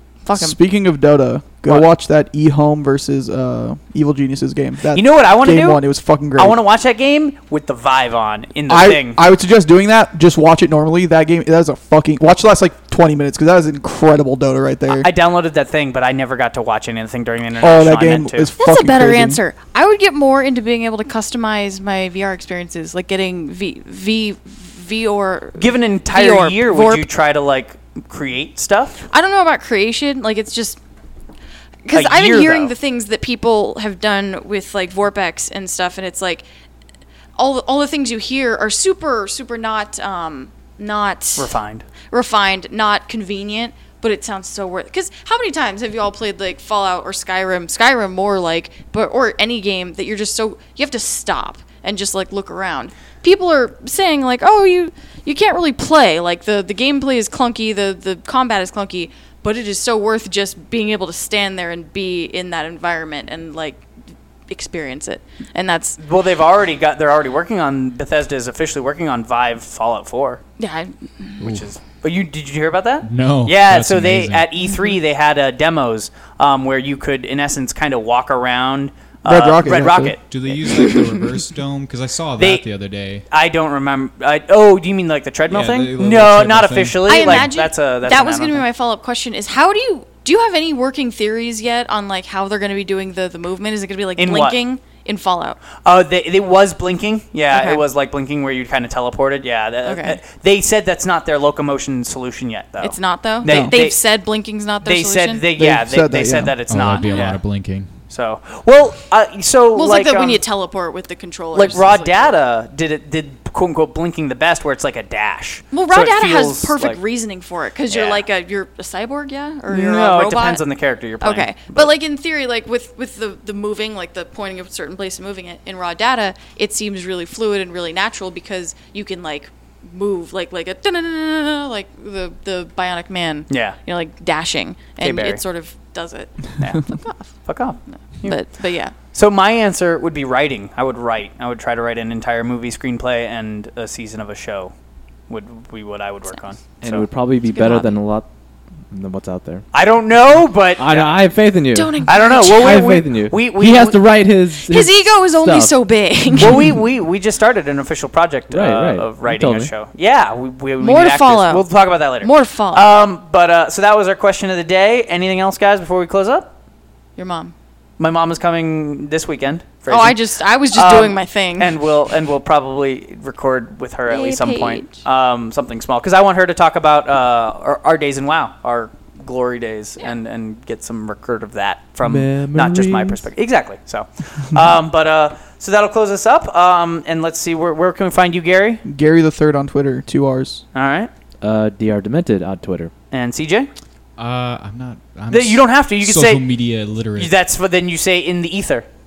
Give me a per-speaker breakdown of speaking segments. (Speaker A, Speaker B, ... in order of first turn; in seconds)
Speaker A: 0.2-0.6, 18.6-27.1, 29.1-30.8, 31.9-36.4, 37.4-41.5, 42.1-63.8, 64.5-66.0, 70.6-71.4, 80.7-81.2, 87.1-95.6, 97.5-97.8, 99.8-100.2, 102.8-105.5, 107.0-107.3, 109.7-112.3, 115.7-120.6, 121.2-137.3, 138.2-138.9, 147.5-148.0, 151.7-152.8, 154.7-156.8, 160.8-161.7, 162.2-162.9, 167.2-167.5, 169.9-171.8, 174.1-174.9
Speaker B: 0.3-6.6, 8.7-15.1, 17.6-19.4, 79.3-80.2, 103.4-103.7, 105.6-106.5, 188.8-190.6
Speaker C: 4.9-5.8, 6.3-9.2, 14.9-18.5, 25.6-29.1, 31.9-32.7, 41.4-41.9, 66.0-70.4, 71.4-80.2, 82.4-82.6, 83.3-88.6, 94.2-94.6, 95.8-104.0, 104.8-107.4, 108.1-110.4, 111.5-117.0, 117.9-118.2, 119.7-121.9, 133.5-133.8, 135.0-135.4, 137.4-138.4, 139.1-144.7, 145.3-147.1, 149.7-151.2, 152.1-154.0, 156.4-166.5, 168.0-170.2, 170.7-188.8, 190.7-191.1, 193.1-193.7, 195.3-196.6, 197.2-198.9
Speaker D: 73.0-74.5, 80.2-83.2, 85.5-87.5, 106.7-107.9, 194.2-197.3
Speaker E: 146.8-148.3, 148.9-149.7, 150.8-155.8, 158.5-159.7, 182.0-183.2, 191.4-192.9